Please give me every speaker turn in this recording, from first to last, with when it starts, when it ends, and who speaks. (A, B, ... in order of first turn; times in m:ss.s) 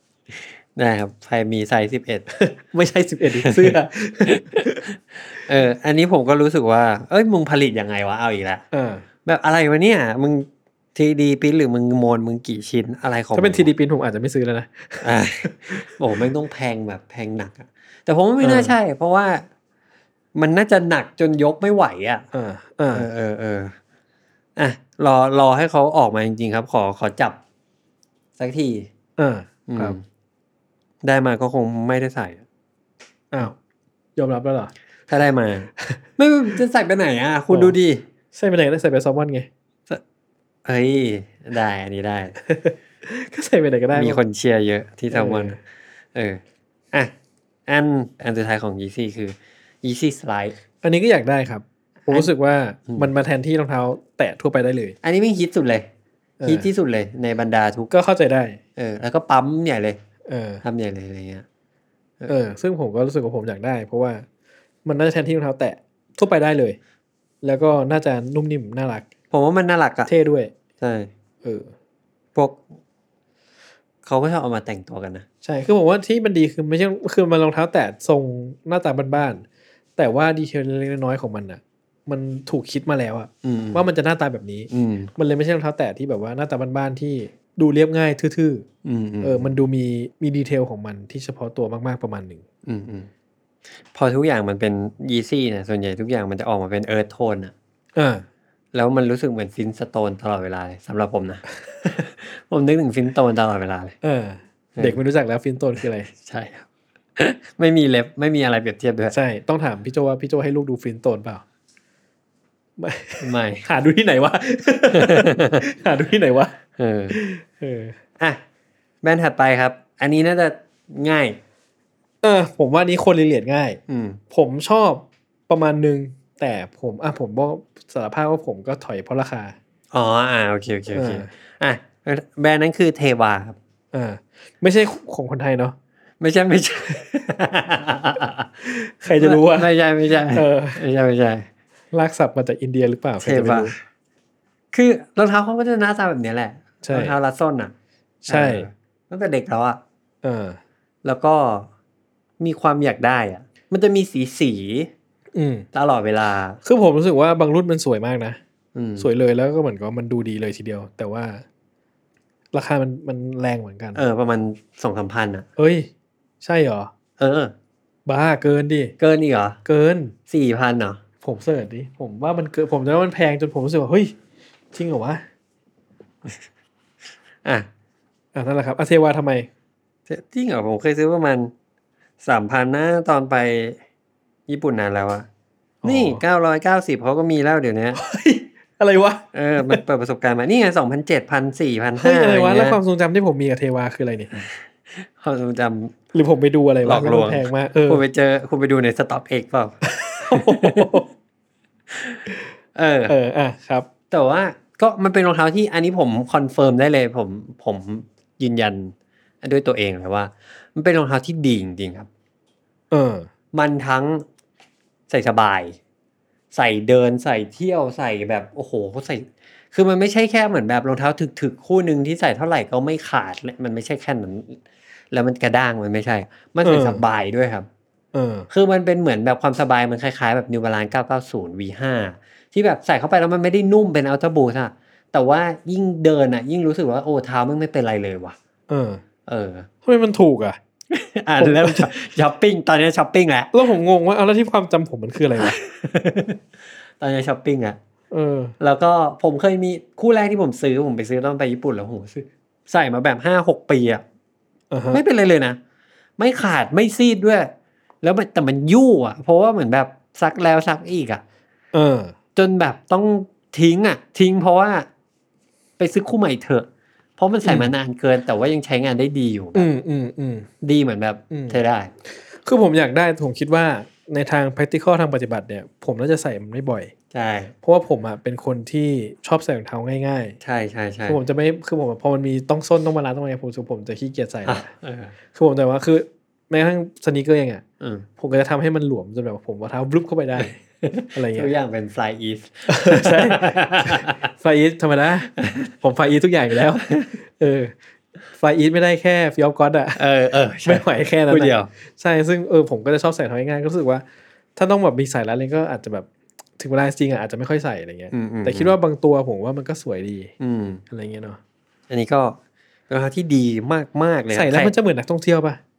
0:00.8-0:02.3 A
0:02.3-0:04.8 B
0:03.4-0:08.6 A
0:08.7-0:09.0 B
0:09.2-0:13.7 A
0:13.3-0:15.9 B
0:15.0-0:19.4 A
0:18.4-0:18.8 B
0:20.4-0:22.3 A
0:22.3-0:23.1 B
0:22.9-0:23.8 A
0:24.6-0:27.4 A
0:28.4-0:28.9 A
0:29.2-0:30.0 B
0:29.7-0:30.0 A
0:31.0-0:32.4 A
0:34.2-0:34.7 B
0:35.1-0:38.0 A
0:37.5-0:37.8 B
0:38.3-0:39.5 B
0:40.6-0:42.4 A
0:42.5-0:44.2 B
0:43.9-0:45.6 A
0:45.1-0:45.6 B
0:46.1-0:46.4 A
0:47.7-0:50.6 A
0:50.8-0:55.0 B
0:52.0-0:52.3 A
0:55.0-0:55.9 A
0:56.4-0:56.7 B
0:56.4-0:57.9 A
0:57.9-0:58.6 B
0:58.8-1:00.0 A
1:00.3-1:00.6 B
1:00.6-1:01.4 A
1:02.3-1:04.3 B
1:04.8-1:06.8 B
1:07.4-1:09.1 B
1:09.3-1:10.1 A
1:10.1-1:10.5 B
1:10.8-1:11.1 A
1:11.4-1:11.7 B
1:12.4-1:12.6 A
1:14.0-1:15.3 A
1:15.4-1:19.4 B
1:20.0-1:28.7 B
1:23.4-1:23.8 A
1:24.7-1:25.1 A
1:28.8-1:29.5 A
1:29.2-1:32.4 B
1:32.7-1:33.1 A
1:33.9-1:37.5 A
1:38.0-1:38.2 B
1:38.7-1:44.0 A
1:44.0-1:46.1 B
1:46.1-1:49.2 A
1:49.1-1:51.4 B
1:52.8-1:56.6 B
1:53.2-1:53.6 A
1:54.9-1:55.6 A
1:56.8-1:57.2 A
1:57.1-1:58.0 B
1:59.0-2:01.4 A
2:02.2-2:03.8 B
2:03.9-2:04.2 A
2:04.3-2:09.6 B
2:09.9-2:13.6 A
2:10.9-2:11.3 B
2:13.9-2:15.8 B
2:16.2-2:18.5 A
2:18.6-2:19.7 B
2:19.2-2:21.5 A
2:20.3-2:20.8 B
2:21.9-2:23.7 B
2:23.2-2:23.8 A
2:24.7-2:27.7 A
2:26.8-2:27.2 B
2:28.2-2:28.7 B
2:28.3-2:29.8 A
2:30.2-2:30.6 B
2:31.0-2:31.7 A
2:32.4-2:34.9 A
2:35.4-2:35.7 B
2:35.7-2:36.6 A
2:36.6-2:38.4 B
2:38.8-2:39.1 A
2:39.0-2:41.4 B
2:42.5-2:44.0 B
2:44.0-2:45.5 A
2:45.6-2:45.9 B
2:46.4-2:46.9 B
2:47.2-2:47.5 A
2:48.1-2:49.0 B
2:49.0-2:49.6 A
2:49.6-2:50.2 B
2:50.3-2:51.0 A
2:51.2-2:54.2 B
2:54.7-2:55.2 B
2:58.4-2:59.5 B
3:00.1-3:01.5 A
3:02.2-3:03.8 A
3:04.5-3:05.3 A
3:05.8-3:06.2 B
3:05.8-3:08.0 A
3:08.0-3:09.8 B
3:09.3-3:12.8 A
3:12.0-3:14.3 B
3:14.4-3:16.0 A
3:16.1-3:18.0 B
3:16.8-3:19.8 A
3:19.8-3:21.1 B
3:20.3-3:21.0 A
3:21.9-3:22.2 A
3:22.8-3:23.1 A
3:23.1-3:23.9 B
3:24.1-3:32.1 A
3:32.9-3:33.3 B
3:33.5-3:34.2 A
3:35.1-3:35.8 A
3:36.5-3:44.6 A
3:45.1-3:47.7 A
3:46.6-3:47.0 B
3:48.1-3:48.5 B
3:48.5-3:58.4 A
3:58.7-3:59.0 B
3:59.3-3:59.7 A
3:59.8-4:00.6 B
4:00.9-4:03.5 A
4:01.4-4:01.9 B
4:03.5-4:05.6 B
4:05.4-4:06.4 A
4:07.0-4:07.8 A
4:08.1-4:08.6 B
4:08.6-4:14.0 A
4:14.7-4:15.0 B
4:14.9-4:15.6 A
4:16.2-4:17.5 A
4:18.0-4:21.2 A
4:21.7-4:22.2 B
4:22.4-4:24.9 A
4:25.8-4:29.7 A
4:27.4-4:27.7 B
4:29.6-4:30.5 B
4:30.6-4:31.9 A
4:31.3-4:31.6 B
4:32.3-4:36.9 B
4:37.1-4:37.5 A
4:37.6-4:40.4 B
4:40.4-4:41.2 A
4:41.1-4:44.7 B
4:44.4-4:45.1 A
4:45.3-4:47.6 B
4:47.8-4:48.1 A
4:48.2-4:50.6 B
4:50.4-4:54.2 A
4:51.1-4:51.5 B
4:52.7-4:57.7 B
4:55.4-4:55.7 A
4:56.8-4:57.1 A
4:58.3-5:00.0 B
5:00.0-5:01.7 A
5:00.6-5:04.0 B
5:04.6-5:10.3 B
5:08.1-5:08.8 A
5:10.4-5:10.8 A
5:10.9-5:11.4 B
5:11.9-5:12.4 A
5:12.9-5:14.7 A
5:14.3-5:15.6 B